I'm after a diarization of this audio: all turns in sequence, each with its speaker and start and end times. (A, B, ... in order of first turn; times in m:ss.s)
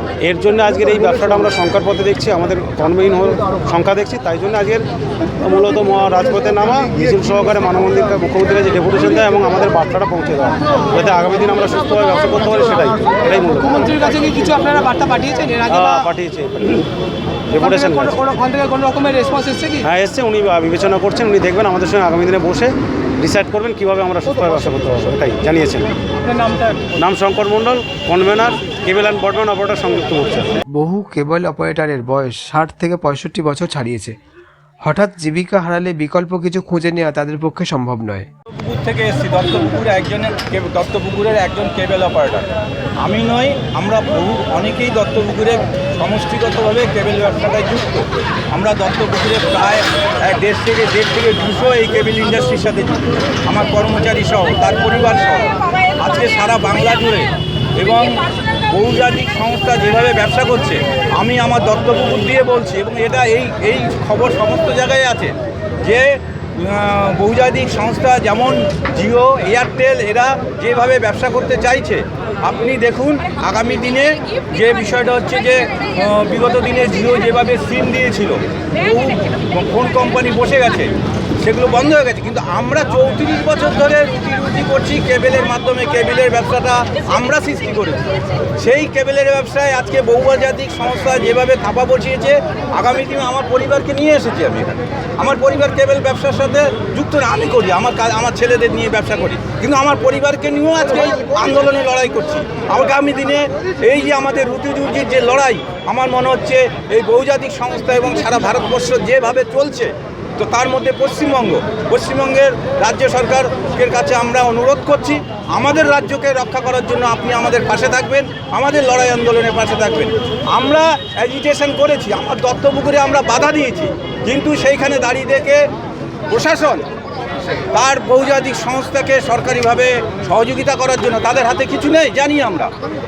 0:00.2-0:04.8 A
0:05.4-0:14.0 A
0:13.8-0:16.0 B
0:15.7-0:16.9 A
0:17.5-0:18.3 A
0:17.7-0:19.8 B
0:19.8-0:25.9 A
0:26.3-0:26.9 B
0:27.0-0:30.6 A
0:30.7-0:34.2 C
0:34.8-0:38.3 C
0:38.5-0:42.5 D
0:43.0-1:20.9 D
1:21.4-2:05.6 D
2:06.3-2:06.9 D
2:07.7-2:12.7 D